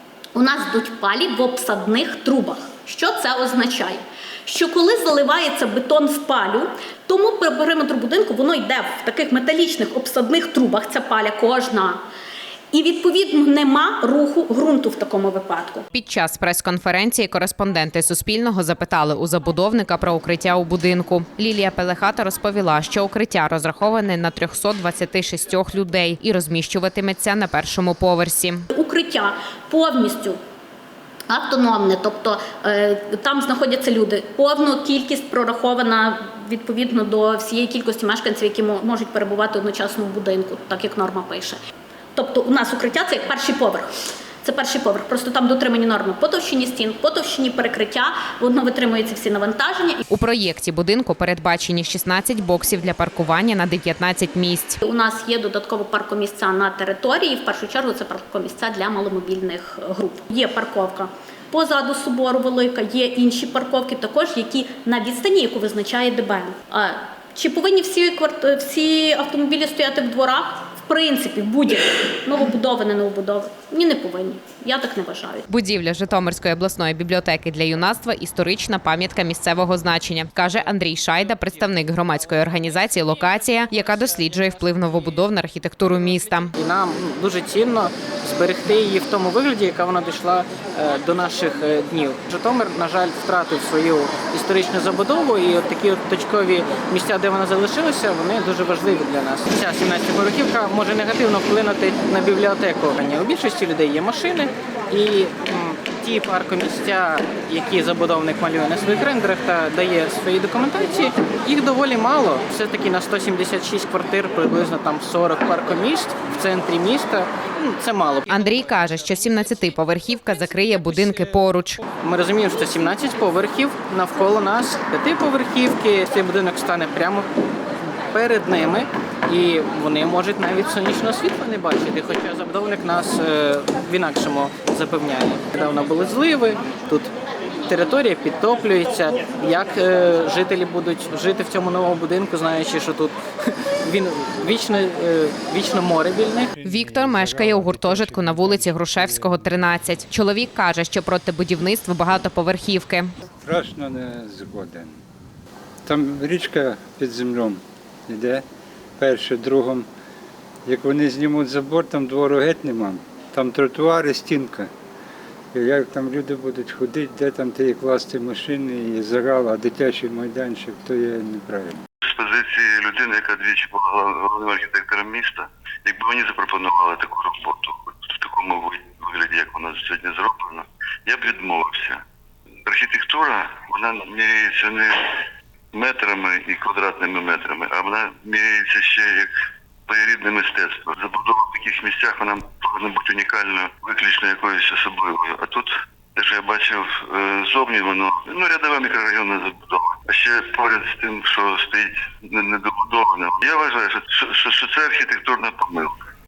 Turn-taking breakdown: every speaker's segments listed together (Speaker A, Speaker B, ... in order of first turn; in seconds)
Speaker A: 0.3-12.0, 12.7-15.9, 28.7-30.4, 31.3-41.6, 42.1-43.9, 44.4-50.0, 54.8-75.5
Speaker B: 15.9-28.6, 50.1-54.8, 75.5-86.5, 118.3-121.8, 146.6-153.1
Speaker C: 86.5-118.3, 122.0-127.3, 128.1-137.1, 137.7-143.2, 143.8-146.5
Speaker D: 146.5-149.5, 153.4-154.9, 155.8-158.4, 159.0-159.8, 160.7-164.7, 165.5-171.8
Speaker E: 172.0-182.0, 182.6-189.3, 189.9-206.1